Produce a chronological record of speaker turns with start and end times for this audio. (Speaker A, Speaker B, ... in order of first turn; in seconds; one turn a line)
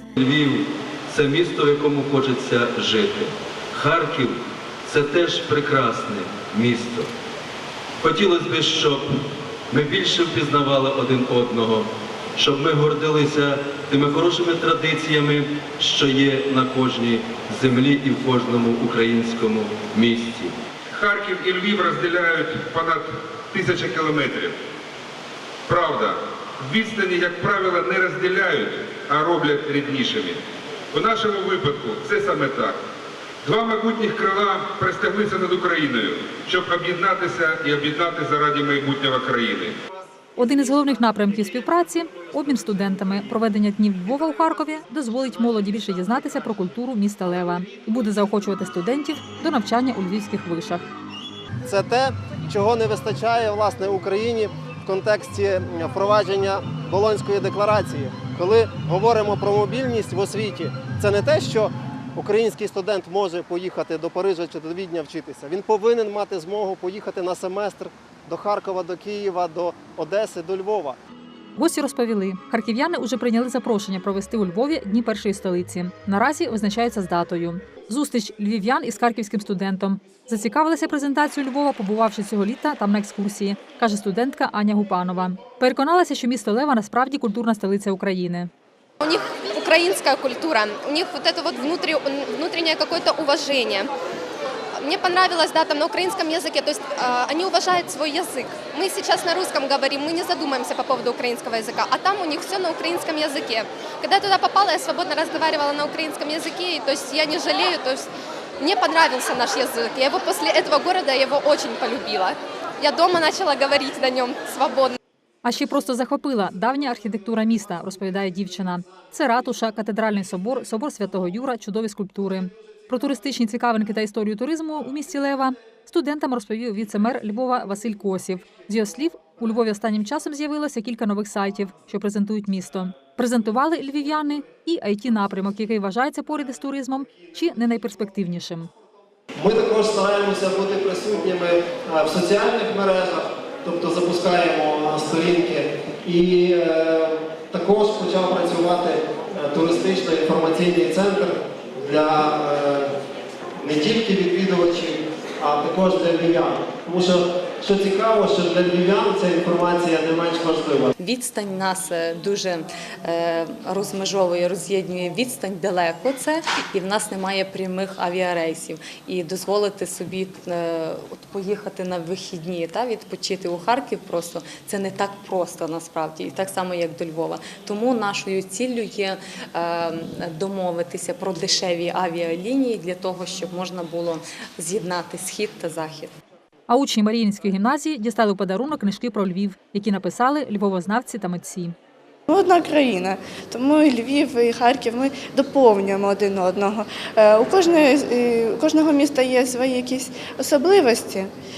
Speaker A: 0.2-7.1
Speaker A: 8.0-9.1
Speaker A: 9.7-20.5
Speaker B: 20.9-24.6
Speaker B: 25.7-30.4
Speaker B: 30.9-32.8
Speaker B: 33.4-39.7
Speaker C: 40.4-50.9
Speaker D: 51.6-71.0
Speaker C: 71.6-88.5
Speaker E: 89.0-93.9
Speaker E: 94.8-108.1
Speaker E: 108.6-115.0
Speaker C: 115.4-138.7
Speaker D: 139.4-152.9
Speaker D: 153.6-160.9
Speaker F: 161.0-186.1
Speaker C: 186.7-191.8
Speaker G: 192.3-201.3